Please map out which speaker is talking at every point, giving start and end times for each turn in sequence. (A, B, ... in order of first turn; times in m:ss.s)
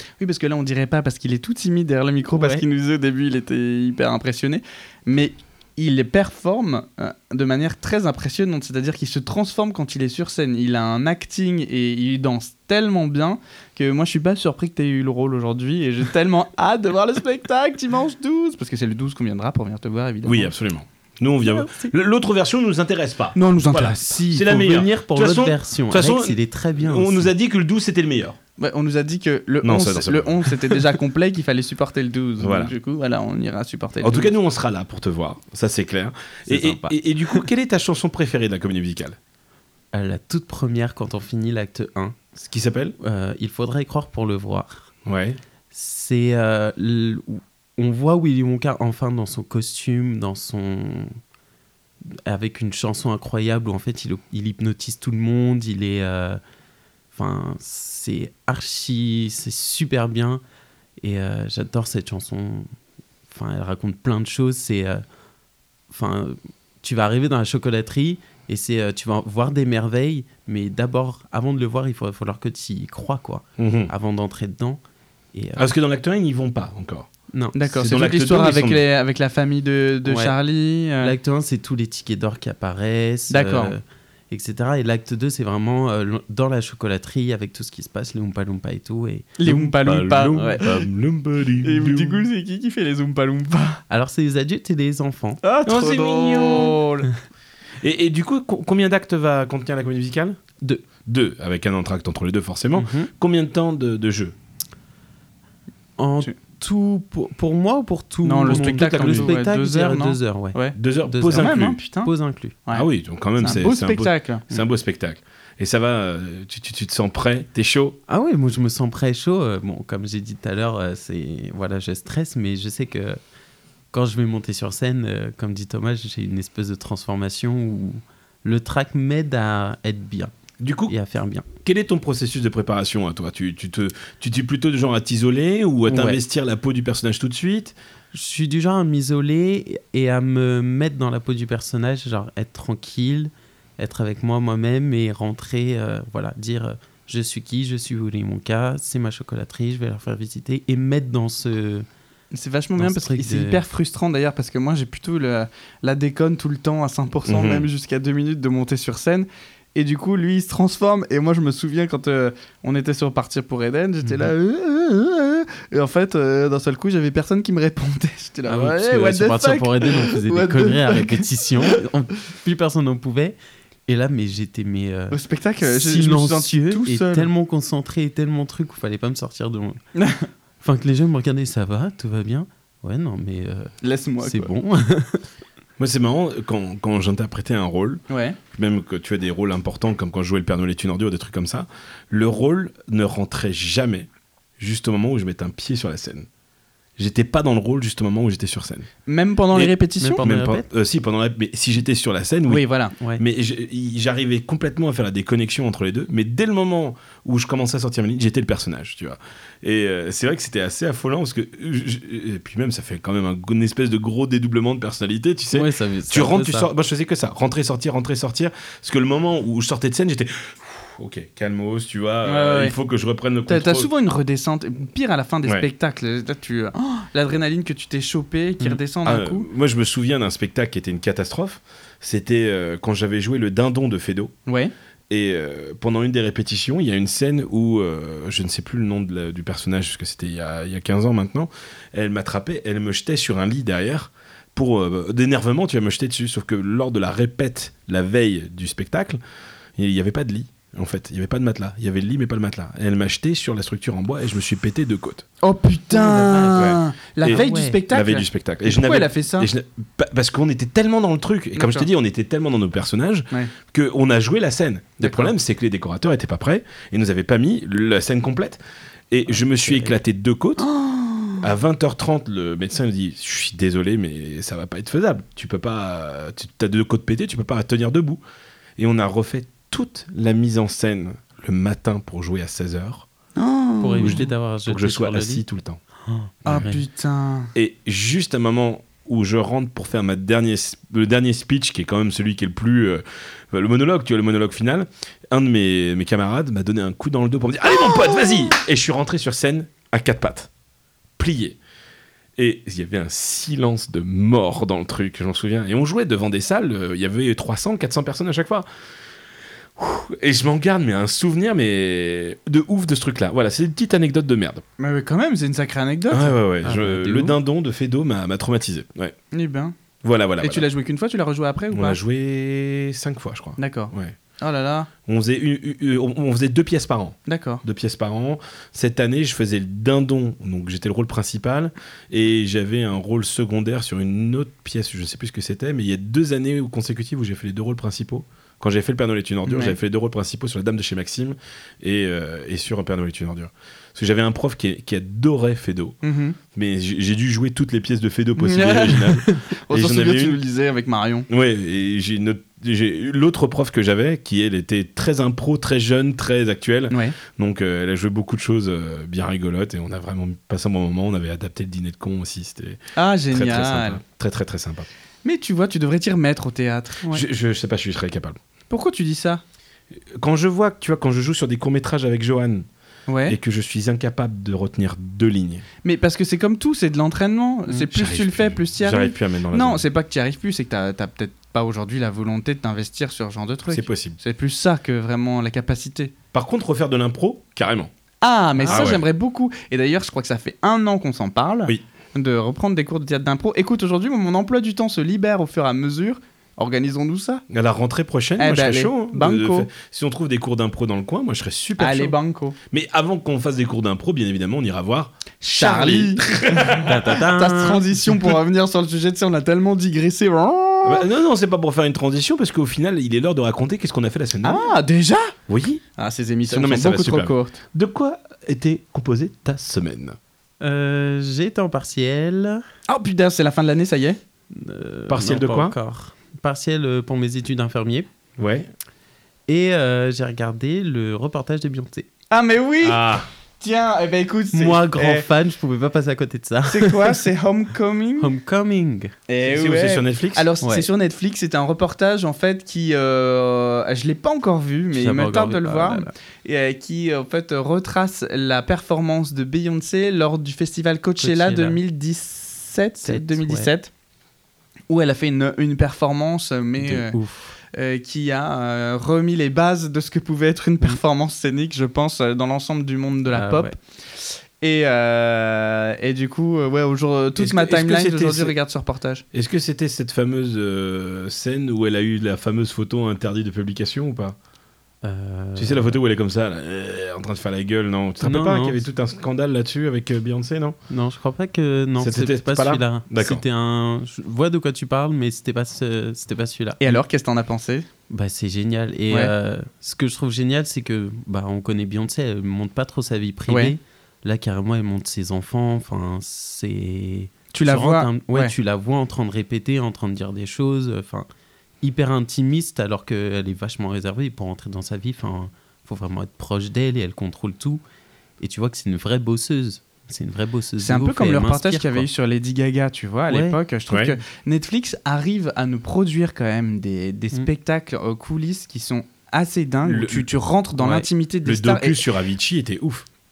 0:00.2-0:20.5 A
0:02.3-0:02.6 B
0:20.2-0:28.4 C
0:21.5-0:21.9 B
0:23.3-0:24.2 A
0:24.0-0:27.3 B
0:28.6-0:34.3 A
0:29.6-0:30.8 C
0:32.4-0:32.7 C
0:34.0-0:39.2 C
0:36.5-0:36.9 B
0:39.9-0:42.2 B
0:42.5-0:42.9 C
0:43.0-0:44.9 B
0:45.0-0:45.4 C
0:45.7-0:51.2 B
0:52.0-0:56.4 B
0:57.1-1:00.4 B
1:01.0-1:02.7 B
1:03.3-1:05.0 B
1:05.9-1:14.8 B
1:13.6-1:13.9 C
1:15.3-1:15.7 B
1:15.6-1:17.1 C
1:17.5-1:21.1 A
1:17.7-1:18.8 C
1:20.0-1:20.4 B
1:21.0-1:29.5 B
1:23.3-1:23.7 A
1:29.4-1:30.8 A
1:29.4-1:32.2 C
1:30.3-1:30.6 B
1:31.6-1:33.8 A
1:33.9-1:35.4 B
1:35.4-1:37.1 A
1:35.6-1:36.8 C
1:37.8-1:40.4 C
1:41.0-1:44.3 C
1:42.8-1:43.1 B
1:46.0-1:52.6 B
1:48.2-1:50.8 A
1:48.4-1:49.4 C
1:50.8-1:51.8 C
1:51.3-1:52.1 A
1:52.7-1:58.0 C
1:53.4-1:54.4 A
1:58.1-2:03.2 B
2:03.9-2:10.3 B
2:10.6-2:10.9 C
2:10.9-2:11.5 B
2:11.6-2:17.7 C
2:15.8-2:16.2 B
2:18.1-2:31.9 B
2:32.3-2:51.7 A
2:32.8-2:33.6 B
2:37.3-2:37.7 C
2:48.4-2:53.4 B
2:53.9-2:59.8 B
2:55.1-2:57.3 A
3:00.0-3:00.3 A
3:00.6-3:03.7 B
3:03.8-3:04.5 A
3:04.2-3:05.2 B
3:05.8-3:14.1 C
3:08.1-3:08.4 A
3:14.6-3:16.3 C
3:17.0-3:18.9 C
3:19.1-3:20.2 A
3:19.5-3:22.6 C
3:20.0-3:20.7 B
3:22.5-3:22.9 A
3:23.2-3:43.9 C
3:35.5-3:36.7 B
3:42.2-3:42.7 A
3:43.5-3:49.4 A
3:49.0-3:54.3 C
3:54.5-3:54.7 A
3:55.1-4:09.2 C
4:09.8-4:15.3 C
4:15.4-4:19.5 A
4:15.9-4:17.8 B
4:16.5-4:28.6 C
4:21.6-4:21.9 A
4:25.0-4:25.3 A
4:29.1-4:30.7 C
4:29.3-4:29.9 B
4:30.6-4:31.4 A
4:31.4-4:38.2 C
4:38.8-4:43.0 C
4:43.4-4:44.2 A
4:43.8-4:45.4 B
4:44.0-4:45.8 C
4:46.0-4:46.8 B
4:46.4-4:46.7 C
4:46.4-4:47.5 A
4:47.5-5:00.5 C
5:01.2-5:01.6 C
5:02.4-5:08.6 C
5:09.8-5:14.6 C
5:14.8-5:16.3 A
5:16.1-5:19.2 C
5:16.6-5:17.4 B
5:19.3-5:19.7 A
5:20.0-5:20.6 C
5:20.4-5:22.0 A
5:21.7-5:24.1 C
5:23.6-5:24.9 A
5:25.1-5:46.0 C
5:27.3-5:27.6 A
5:39.5-5:39.8 A
5:46.0-5:46.4 A
5:46.5-5:50.4 C
5:48.4-5:51.3 A
5:51.3-6:02.8 C
5:56.9-5:57.2 A
6:03.0-6:04.0 A
6:03.3-6:04.9 C
6:05.2-6:07.2 A
6:07.1-6:08.4 C
6:08.7-6:09.4 A
6:10.2-6:12.6 C
6:13.1-6:13.4 A
6:13.3-6:15.6 C
6:15.8-6:26.1 A
6:17.7-6:19.8 C
6:23.7-6:24.2 C
6:26.3-6:27.9 C
6:28.2-6:37.4 A
6:28.6-6:28.9 B
6:28.6-6:29.0 C
6:37.5-6:42.1 C
6:38.4-6:39.7 A
6:41.8-6:42.6 A
6:42.7-6:47.0 C
6:45.4-6:46.2 A
6:46.8-6:48.3 B
6:47.1-6:51.0 A
6:50.8-6:54.7 C
6:54.4-6:55.3 A
6:55.5-6:55.8 C
6:56.0-6:57.6 A
6:56.5-7:00.2 C
7:00.6-7:02.6 B
7:02.9-7:04.2 A
7:04.5-7:08.1 B
7:05.1-7:05.7 C
7:08.4-7:08.7 C
7:09.5-7:12.1 B
7:12.3-7:13.0 A
7:12.8-7:13.3 C
7:13.6-7:15.2 A
7:14.5-7:17.2 B
7:16.7-7:18.3 A
7:18.2-7:19.1 B
7:19.3-7:33.9 A
7:19.4-7:20.4 C
7:20.6-7:20.9 B
7:24.9-7:26.1 B
7:31.2-7:31.8 B
7:33.0-7:33.7 B
7:34.9-7:37.2 A
7:36.8-7:37.6 B
7:37.7-7:43.8 A
7:43.3-7:43.8 B
7:44.6-7:49.2 A
7:47.4-7:48.5 C
7:49.3-7:54.3 C
7:55.0-7:56.0 B
7:55.6-8:00.8 C
7:58.2-7:58.8 B
8:00.9-8:07.0 B
8:02.0-8:03.4 C
8:06.8-8:07.9 A
8:08.1-8:21.3 B
8:13.5-8:13.7 A
8:17.5-8:18.5 A
8:21.8-8:27.8 B
8:28.4-8:32.1 B
8:30.8-8:42.0 A
8:33.3-8:33.6 B
8:33.9-8:34.2 C
8:39.8-8:40.3 C
8:40.8-8:41.1 B
8:41.4-8:43.0 C